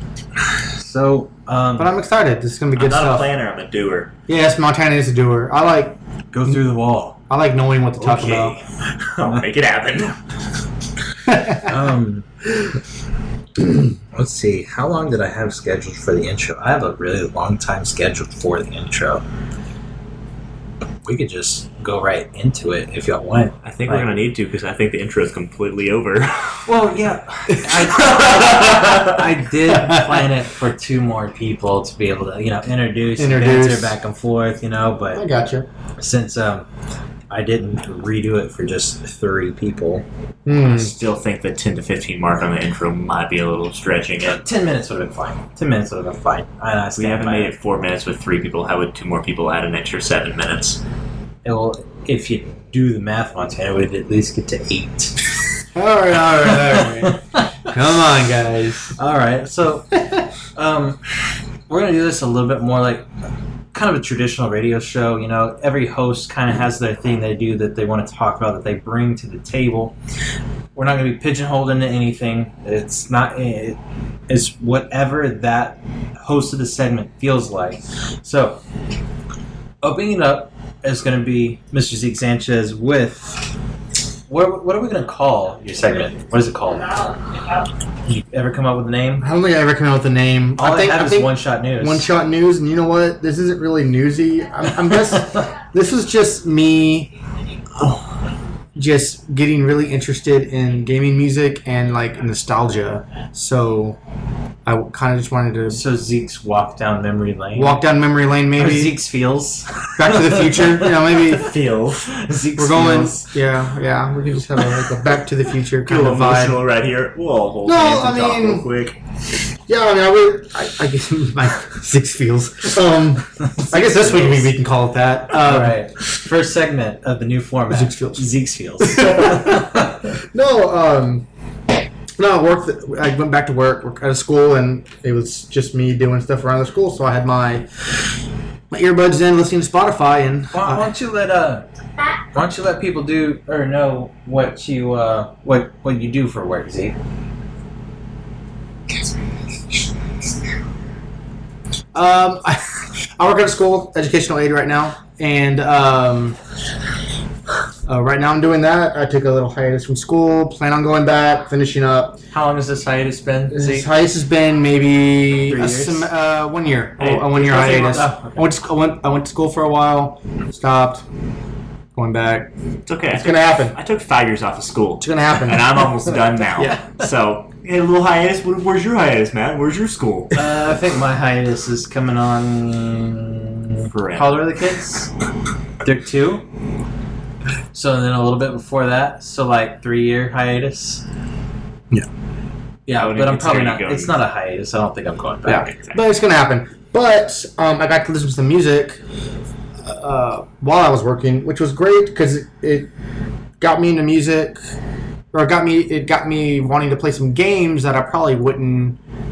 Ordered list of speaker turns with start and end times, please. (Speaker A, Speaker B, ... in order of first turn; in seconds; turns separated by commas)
Speaker A: 0.7-1.9, Speaker B: 1.8-3.3, Speaker C: 2.8-4.1, Speaker B: 4.3-6.0, Speaker A: 6.3-7.2, Speaker B: 7.3-8.6, Speaker C: 8.0-10.2, Speaker B: 11.3-11.7, Speaker A: 11.4-12.4, Speaker A: 14.1-19.2, Speaker A: 21.0-24.2, Speaker C: 23.6-26.7, Speaker A: 26.7-35.2, Speaker C: 27.9-29.2, Speaker B: 29.7-30.3, Speaker B: 33.2-34.0, Speaker B: 35.1-35.7, Speaker A: 36.0-36.6, Speaker A: 37.3-40.0, Speaker B: 40.5-40.9, Speaker C: 40.5-44.4, Speaker A: 44.2-47.5, Speaker C: 47.0-50.8, Speaker A: 51.4-55.1, Speaker B: 55.7-59.0, Speaker A: 56.1-57.7, Speaker A: 59.0-61.0, Speaker A: 61.7-63.0, Speaker A: 63.7-69.9, Speaker A: 70.8-78.6, Speaker A: 79.8-83.4, Speaker A: 84.3-87.2, Speaker A: 88.1-89.3, Speaker B: 89.2-97.1, Speaker A: 90.6-92.1, Speaker B: 98.7-104.0, Speaker B: 104.7-105.8, Speaker A: 105.7-107.8, Speaker B: 107.5-109.0, Speaker A: 108.5-111.2, Speaker B: 110.0-111.6, Speaker C: 111.2-112.1, Speaker A: 112.0-113.3, Speaker B: 112.6-116.6, Speaker C: 115.8-119.0, Speaker B: 117.7-118.7, Speaker B: 119.7-125.8, Speaker A: 123.5-124.5, Speaker A: 125.4-130.0, Speaker B: 127.7-128.3, Speaker B: 128.8-131.2, Speaker B: 132.2-137.7, Speaker B: 138.7-140.9, Speaker A: 140.5-141.6, Speaker A: 142.2-146.9, Speaker B: 151.9-152.6, Speaker B: 153.2-156.4, Speaker B: 157.8-162.2, Speaker A: 162.3-163.9, Speaker B: 163.5-171.0, Speaker A: 165.5-166.1, Speaker A: 167.0-168.4, Speaker B: 171.9-172.5, Speaker C: 172.9-180.4, Speaker B: 173.1-173.7, Speaker B: 175.0-175.9, Speaker A: 180.3-185.1, Speaker C: 183.9-184.4, Speaker A: 185.8-186.4, Speaker A: 187.7-191.0, Speaker A: 192.9-195.7, Speaker C: 192.9-194.2, Speaker B: 195.4-199.0, Speaker C: 195.7-196.0, Speaker B: 199.8-202.9, Speaker B: 203.6-204.6, Speaker B: 205.3-209.0